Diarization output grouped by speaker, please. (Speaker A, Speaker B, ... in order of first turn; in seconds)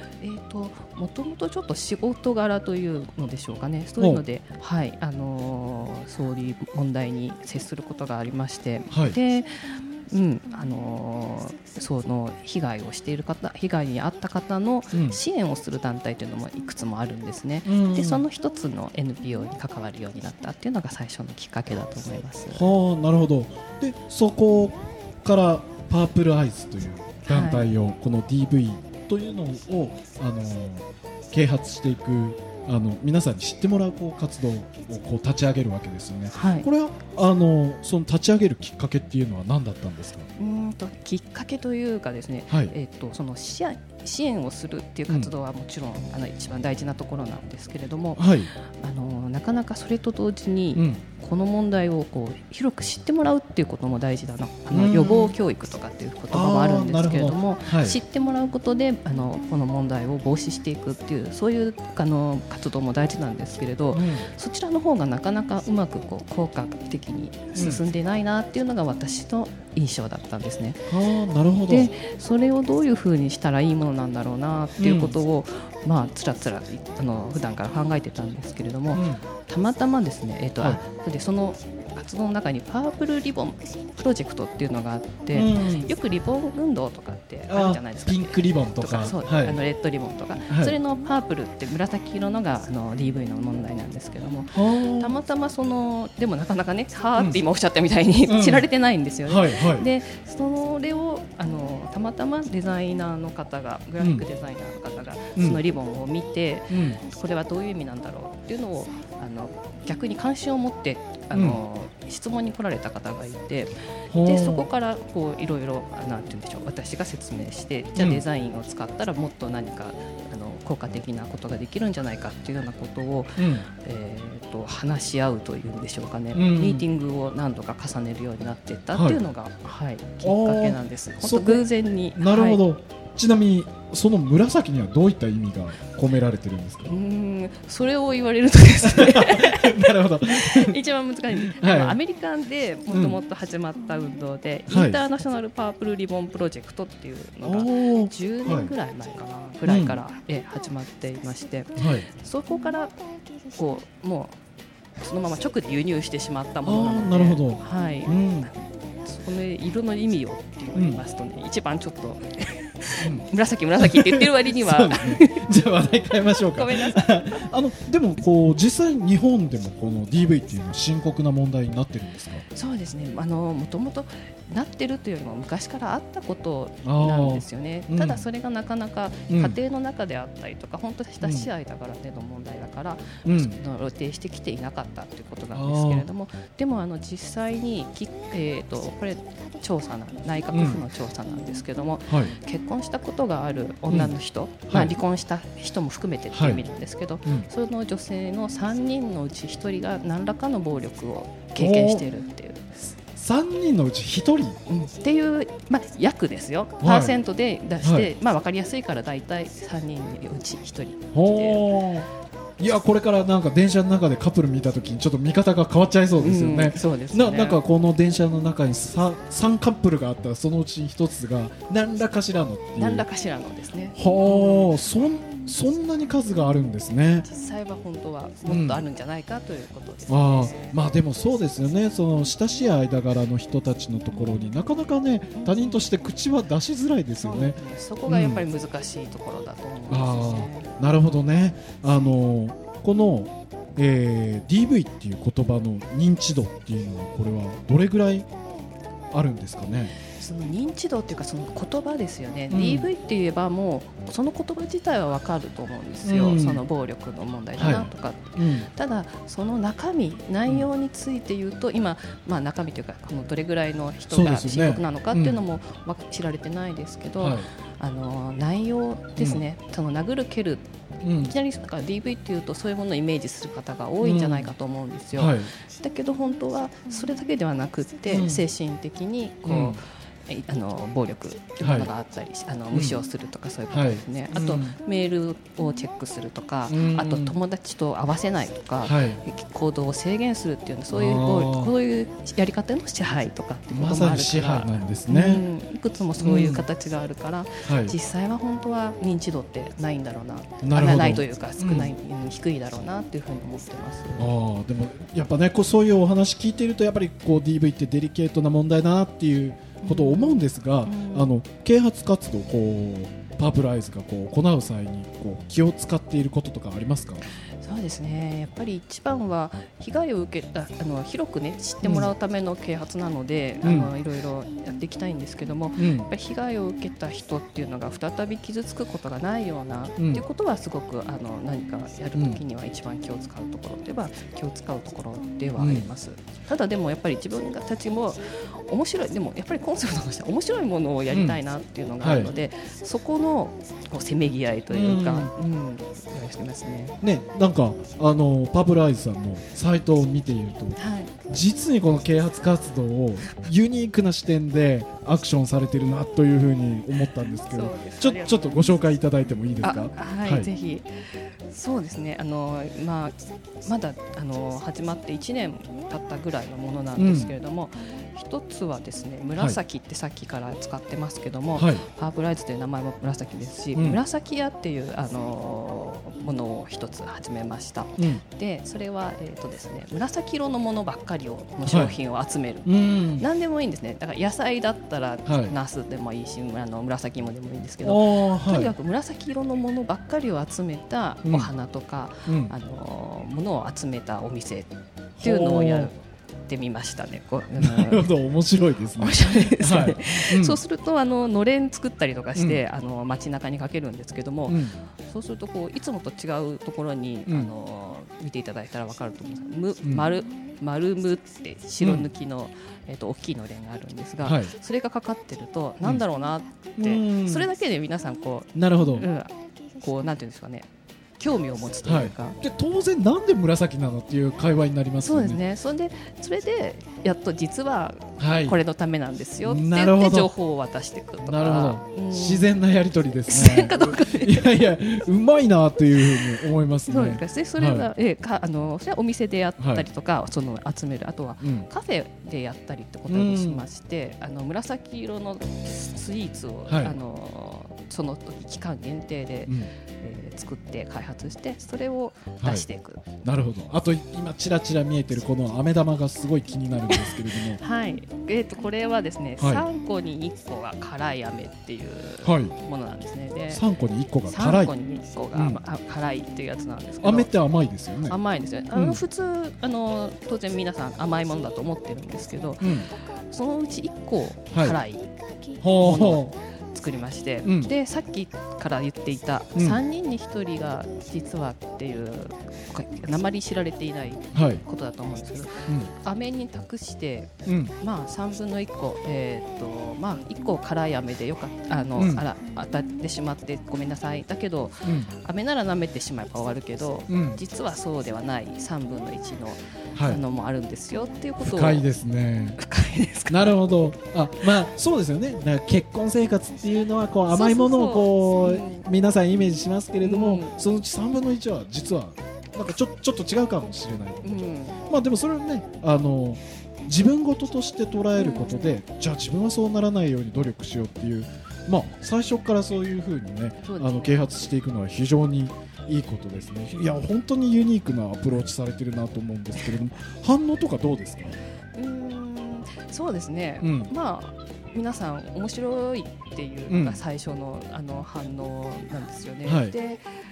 Speaker A: 0.2-22.7, 27.2-27.7, 36.3-36.7, 40.4-70.8, 71.7-132.6, 136.8-152.9, 153.5-154.4, 155.0-165.4, 166.5-167.5, 172.5-202.7, 204.7-211.6, 216.2-217.6, 222.8-224.8, 227.2-230.8, 234.1-234.6, 235.3-235.8, 237.2-240.7, 250.1-304.3, 309.8-311.3, 317.6-347.0, 350.8-351.1, 357.5-358.8, 359.6-398.1, 398.9-420.7, 421.2-422.4, 425.0-432.5, 433.3-434.5, 436.0-453.0, 456.9-463.6, 464.2-467.3, 468.1-475.1, 475.6-501.8, 502.6-503.8, 507.3-508.9, 510.0-510.5, 514.2-514.8, 518.1-518.7, 523.6-524.2, 531.7-540.0
Speaker B: 4.0-4.2, 8.9-9.2, 14.9-15.2, 17.6-18.2, 22.5-40.3, 42.5-42.7, 45.1-45.3, 48.1-48.5, 50.7-51.0, 54.7-55.3, 56.3-58.0, 63.9-64.3, 67.5-67.8, 70.9-71.9, 74.8-75.2, 78.9-79.2, 85.3-85.9, 87.5-89.6, 90.5-90.8, 94.5-95.2, 97.2-97.4, 98.2-98.7, 99.2-99.9, 104.0-104.2, 106.7-107.0, 111.3-111.6, 114.1-114.7, 117.9-118.2, 123.4-123.7, 126.3-126.8, 128.9-129.2, 130.2-136.9, 138.8-140.8, 141.3-142.0, 142.9-143.2, 144.7-145.0, 147.4-148.7, 149.6-150.0, 151.8-152.1, 156.6-158.5, 160.7-161.0, 163.0-172.4, 176.8-178.2, 179.3-179.6, 181.2-181.5, 183.2-183.6, 185.5-186.1, 190.5-190.8, 192.1-192.3, 193.9-194.2, 194.7-194.9, 196.3-196.6, 201.6-202.1, 202.9-204.6, 206.8-207.2, 207.8-208.1, 211.1-212.1, 212.6-223.0, 223.9-227.3, 228.4-228.8, 230.1-238.4, 239.9-248.3, 249.1-249.9, 252.5-252.9, 256.0-256.6, 257.6-258.7, 264.1-265.4, 267.2-267.5, 269.2-269.4, 271.0-271.3, 274.0-274.5, 275.1-275.5, 278.1-278.4, 279.4-279.8, 281.6-281.9, 282.7-283.0, 283.7-284.8, 286.7-287.4, 288.8-289.2, 290.9-291.7, 293.7-295.4, 296.2-296.6, 297.6-297.9, 300.6-301.9, 304.1-317.2, 321.8-322.1, 323.6-323.9, 325.8-326.1, 330.0-330.2, 332.1-332.4, 335.6-335.9, 341.1-341.4, 342.0-342.3, 344.7-345.3, 347.0-360.5, 366.9-367.3, 371.5-371.8, 373.7-374.0, 378.0-378.2, 381.6-382.0, 382.6-383.3, 385.2-385.5, 387.8-388.7, 391.2-391.5, 392.2-392.5, 395.2-395.9, 397.6-400.6, 402.3-402.6, 404.5-404.8, 409.8-410.1, 411.8-412.1, 414.2-414.5, 416.8-417.5, 418.5-419.1, 421.8-425.4, 428.2-428.6, 429.4-430.3, 431.2-437.9, 439.6-439.9, 441.4-441.7, 443.1-443.6, 446.7-446.9, 449.4-449.7, 452.4-452.7, 453.2-457.6, 459.4-459.6, 462.2-462.5, 463.5-464.7, 465.3-465.6, 467.0-468.2, 468.7-469.0, 472.6-472.9, 474.5-474.8, 475.6-476.3, 477.4-477.7, 479.5-479.8, 484.3-484.6, 487.4-487.7, 491.9-492.2, 494.8-495.1, 497.1-497.4, 499.9-500.2, 501.4-502.6, 503.3-531.4, 533.6-533.9, 536.7-537.0, 539.4-539.7